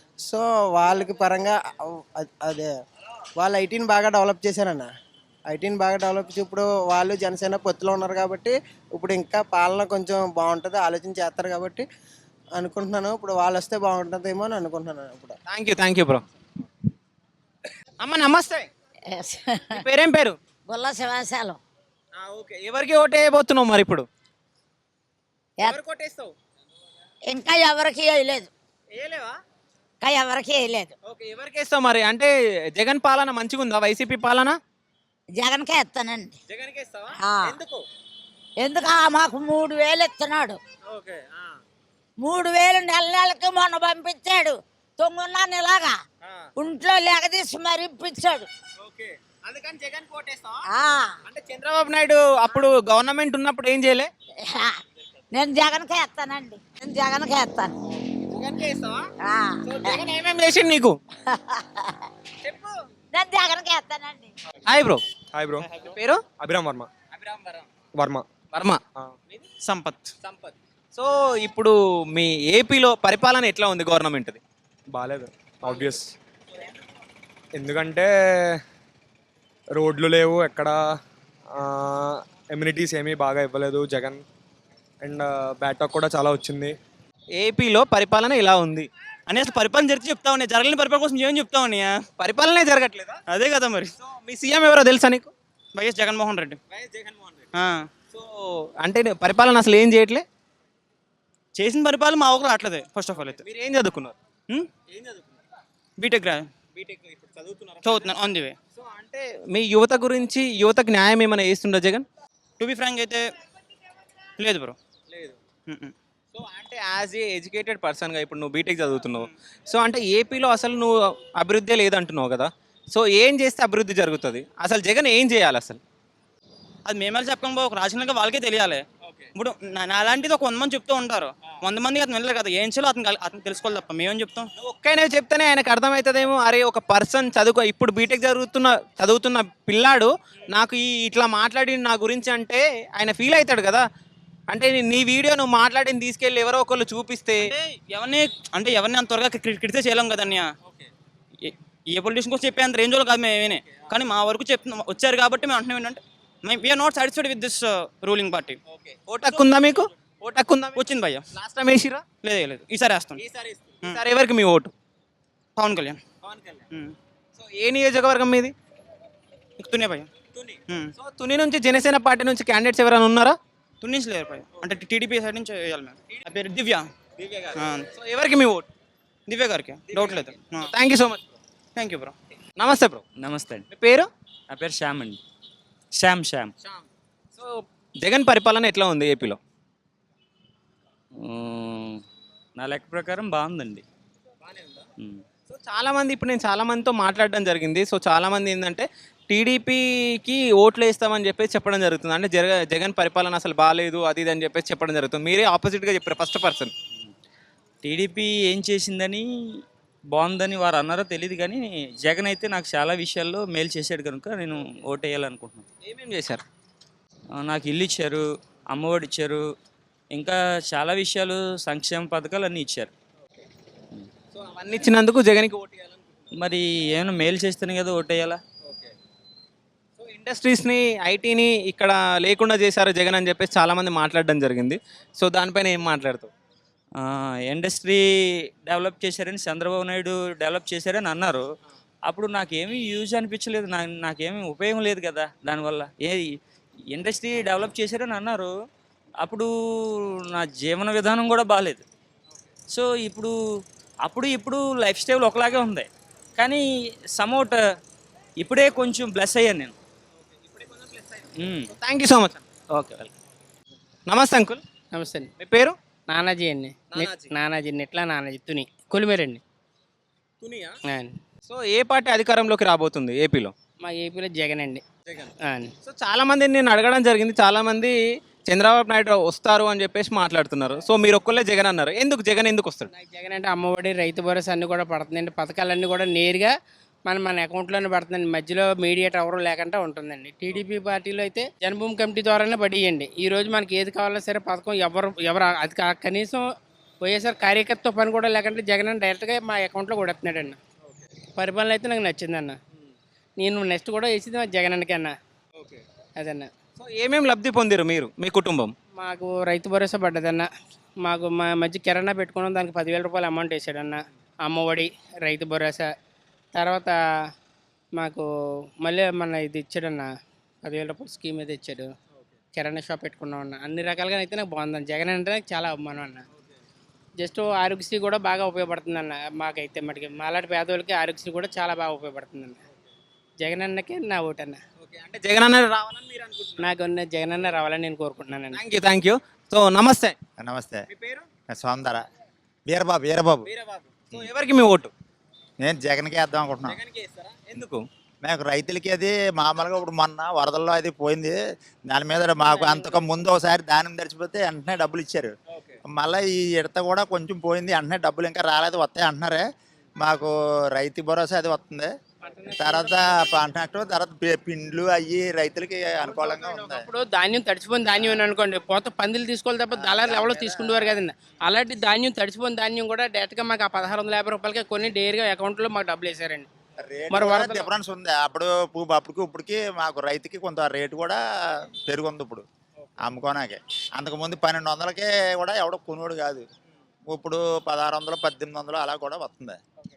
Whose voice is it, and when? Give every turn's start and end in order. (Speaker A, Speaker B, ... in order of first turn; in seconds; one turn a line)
Speaker A: 0.2-2.7
Speaker A: 3.4-4.9
Speaker A: 5.5-11.8
Speaker A: 12.5-15.4
Speaker B: 15.5-16.2
Speaker B: 18.0-18.7
Speaker C: 19.1-19.8
Speaker B: 19.7-20.4
Speaker C: 20.7-21.6
Speaker B: 22.2-24.1
Speaker B: 25.6-26.3
Speaker C: 27.3-28.5
Speaker B: 28.9-29.3
Speaker C: 30.0-30.9
Speaker B: 31.1-34.6
Speaker C: 35.4-36.3
Speaker B: 36.5-37.8
Speaker C: 37.2-37.6
Speaker C: 38.6-40.6
Speaker B: 40.9-41.4
Speaker C: 42.2-45.9
Speaker C: 46.5-48.5
Speaker B: 48.8-50.6
Speaker C: 50.7-51.1
Speaker B: 51.2-54.1
Speaker C: 54.5-54.8
Speaker C: 55.3-57.7
Speaker B: 58.3-59.1
Speaker C: 59.2-60.0
Speaker B: 59.6-61.0
Speaker C: 61.3-61.9
Speaker B: 62.4-62.7
Speaker C: 63.1-64.3
Speaker B: 64.7-65.0
Speaker D: 65.3-65.7
Speaker B: 65.7-66.2
Speaker D: 66.4-66.9
Speaker B: 67.1-67.6
Speaker D: 68.0-68.2
Speaker B: 68.5-69.5
Speaker E: 69.6-70.1
Speaker B: 70.2-74.4
Speaker D: 74.9-76.1
Speaker D: 77.6-78.6
Speaker D: 79.8-80.8
Speaker D: 81.6-84.2
Speaker D: 85.0-86.8
Speaker B: 87.3-88.9
Speaker E: 89.3-92.0
Speaker B: 92.2-93.2
Speaker E: 93.3-93.9
Speaker B: 94.0-95.3
Speaker E: 95.7-96.6
Speaker B: 96.7-97.5
Speaker E: 97.5-97.9
Speaker B: 98.1-100.2
Speaker E: 101.5-103.4
Speaker B: 103.4-104.2
Speaker B: 104.9-105.2
Speaker E: 106.0-106.5
Speaker B: 106.7-108.1
Speaker E: 107.8-108.5
Speaker B: 108.8-112.0
Speaker E: 112.6-113.2
Speaker E: 114.4-114.8
Speaker E: 115.7-115.9
Speaker B: 116.3-125.8
Speaker E: 126.8-128.8
Speaker E: 129.3-134.5
Speaker B: 134.6-143.8
Speaker B: 144.5-147.5
Speaker E: 147.4-150.5
Speaker E: 151.4-158.6
Speaker B: 158.9-160.8
Speaker E: 160.7-161.2
Speaker B: 161.3-162.0
Speaker E: 162.2-163.2
Speaker B: 163.2-164.7
Speaker E: 165.6-166.0
Speaker B: 166.2-166.6
Speaker B: 167.4-168.5
Speaker E: 169.6-170.1
Speaker B: 170.3-173.4
Speaker E: 173.8-176.9
Speaker B: 177.2-178.7
Speaker E: 177.5-177.9
Speaker E: 179.3-180.7
Speaker B: 179.9-181.2
Speaker E: 181.8-182.1
Speaker B: 182.6-183.0
Speaker F: 183.2-183.7
Speaker B: 183.7-184.1
Speaker F: 184.5-185.2
Speaker F: 185.9-186.5
Speaker B: 187.4-189.4
Speaker F: 191.2-192.0
Speaker F: 192.6-193.8
Speaker B: 195.5-206.7
Speaker F: 207.8-209.3
Speaker F: 210.1-215.7
Speaker B: 215.8-216.4
Speaker F: 217.3-219.5
Speaker F: 220.1-222.9
Speaker B: 224.3-225.9
Speaker F: 226.3-228.4
Speaker B: 230.0-236.3
Speaker F: 236.9-241.4
Speaker F: 242.1-246.3
Speaker F: 246.9-248.5
Speaker F: 249.2-251.8
Speaker F: 252.7-253.3
Speaker F: 254.0-257.6
Speaker F: 258.4-259.7
Speaker B: 260.5-260.9
Speaker F: 261.4-261.7
Speaker B: 261.7-262.4
Speaker F: 262.8-263.1
Speaker B: 264.1-264.6
Speaker G: 264.9-265.3
Speaker B: 265.4-265.7
Speaker G: 266.1-269.4
Speaker B: 266.9-267.3
Speaker B: 270.4-270.8
Speaker G: 270.8-271.1
Speaker B: 271.5-273.5
Speaker G: 273.8-274.8
Speaker G: 275.4-275.7
Speaker B: 275.8-282.9
Speaker G: 282.9-286.5
Speaker G: 287.1-296.4
Speaker G: 297.0-300.6
Speaker G: 301.4-302.6
Speaker G: 303.4-305.1
Speaker G: 306.2-306.5
Speaker B: 306.8-308.7
Speaker G: 309.0-310.5
Speaker G: 311.0-315.9
Speaker G: 316.5-316.9
Speaker G: 318.0-318.3
Speaker G: 318.8-320.1
Speaker G: 320.6-321.9
Speaker G: 322.5-326.2
Speaker G: 327.2-332.6
Speaker G: 333.4-334.6
Speaker B: 334.8-336.6
Speaker G: 336.6-338.6
Speaker B: 338.5-340.1
Speaker H: 340.4-340.8
Speaker B: 340.9-341.3
Speaker H: 341.5-342.0
Speaker H: 342.7-343.5
Speaker B: 343.4-344.9
Speaker H: 345.6-346.8
Speaker B: 346.7-347.8
Speaker H: 348.2-351.4
Speaker H: 351.9-355.3
Speaker G: 352.4-353.0
Speaker H: 355.9-359.4
Speaker H: 360.0-361.9
Speaker G: 362.3-363.4
Speaker H: 362.5-366.9
Speaker G: 366.0-376.4
Speaker H: 369.8-371.0
Speaker H: 376.8-381.2
Speaker G: 377.1-377.7
Speaker H: 381.9-382.4
Speaker H: 383.0-386.4
Speaker H: 387.1-389.6